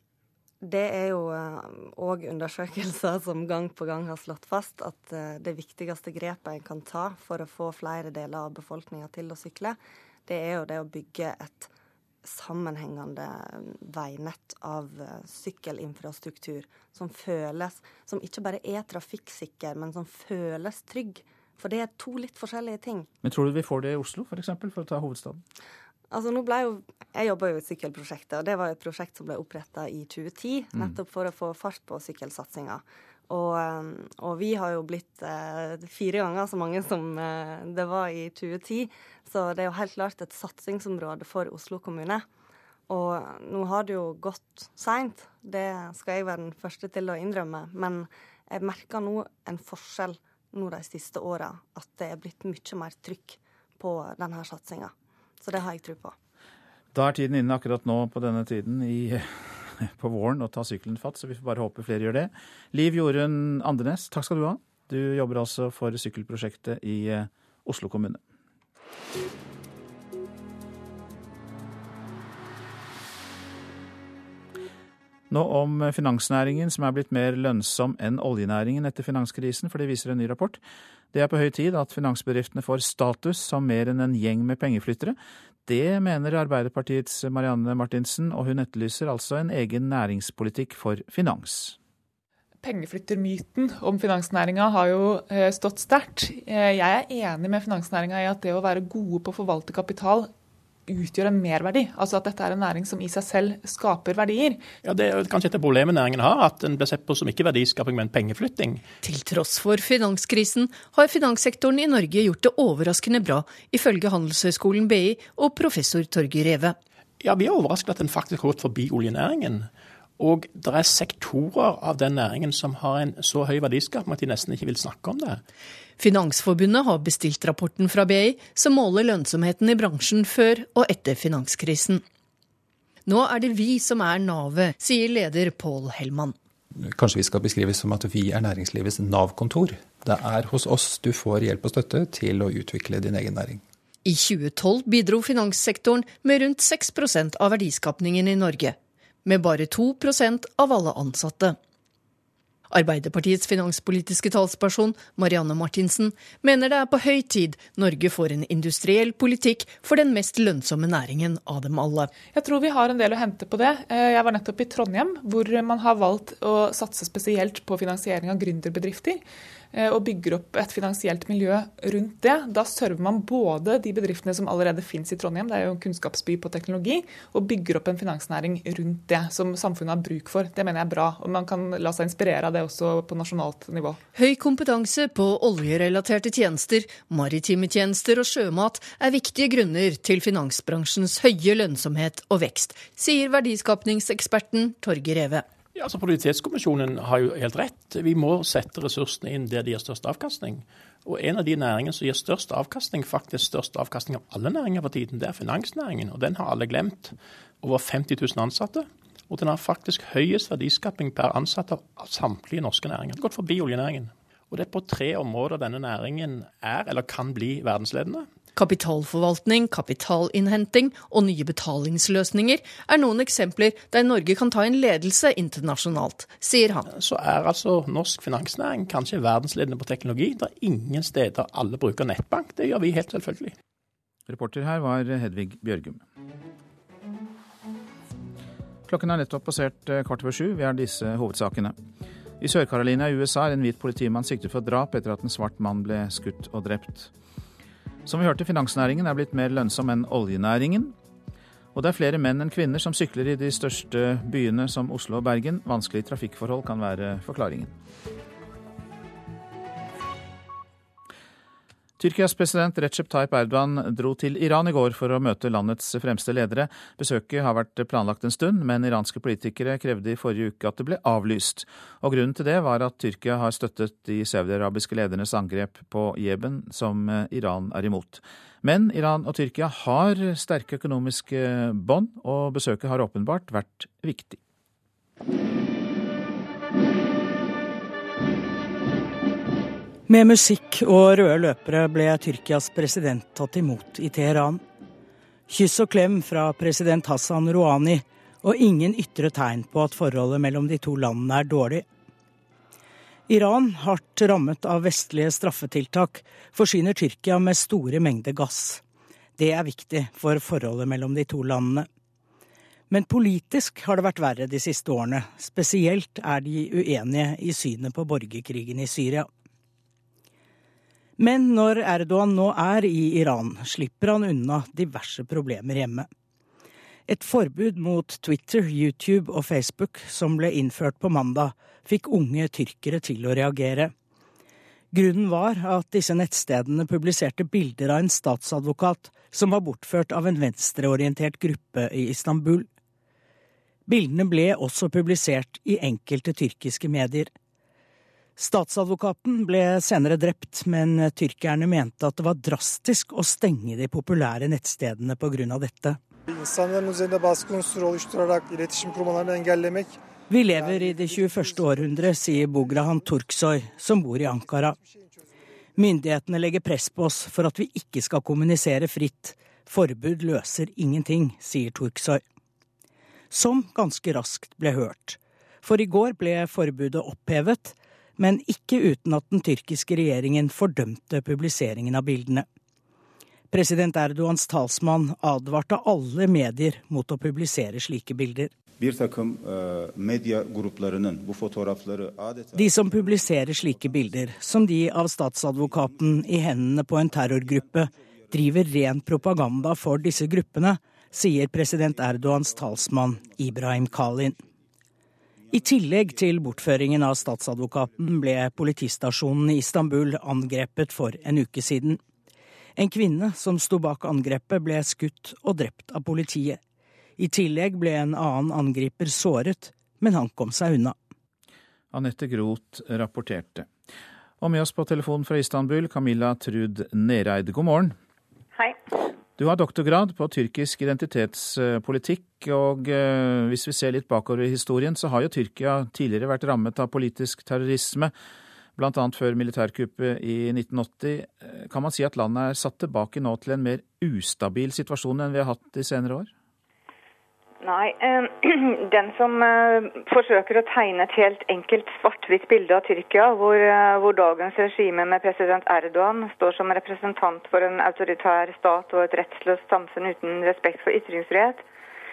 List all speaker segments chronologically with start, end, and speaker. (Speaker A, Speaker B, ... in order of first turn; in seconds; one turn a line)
Speaker A: 0.6-11.7
Speaker A: 12.2-23.1
Speaker B: 23.2-25.4
Speaker A: 26.1-42.2
Speaker A: 42.9-56.1
Speaker B: 56.9-68.2
Speaker B: 75.3-80.6
Speaker B: 81.1-91.8
Speaker C: 92.6-100.3
Speaker C: 100.9-104.6
Speaker D: 104.8-108.8
Speaker E: 109.0-116.8
Speaker D: 117.2-125.4
Speaker E: 126.0-132.0
Speaker E: 133.1-136.3
Speaker F: 136.8-143.6
Speaker E: 144.0-151.6
Speaker E: 152.7-162.1
Speaker C: 162.3-184.0
Speaker E: 184.1-195.4
Speaker D: 195.8-218.3
Speaker E: 218.5-226.9
Speaker D: 226.9-233.5
Speaker B: 234.3-236.0
Speaker B: 238.9-241.7
Speaker B: 242.4-247.1
Speaker B: 248.1-250.9
Speaker B: 251.7-257.7
Speaker B: 262.0-284.4
Speaker G: 290.1-294.6
Speaker G: 295.5-301.8
Speaker G: 303.3-308.8
Speaker G: 309.4-311.8
Speaker G: 312.9-319.2
Speaker G: 321.2-326.1
Speaker G: 327.1-333.9
Speaker G: 334.9-342.6
Speaker G: 343.9-347.3
Speaker G: 348.4-356.0
Speaker G: 360.4-364.7
Speaker G: 365.8-372.2
Speaker G: 373.3-382.4
Speaker G: 383.5-388.5
Speaker F: 388.8-392.8
Speaker G: 392.6-404.3
Speaker G: 405.6-412.0
Speaker G: 412.8-416.6
Speaker G: 417.2-420.9
Speaker B: 421.9-423.7
Speaker B: 424.4-427.9
Speaker B: 429.4-438.1
Speaker B: 438.8-446.3
Speaker H: 447.6-461.6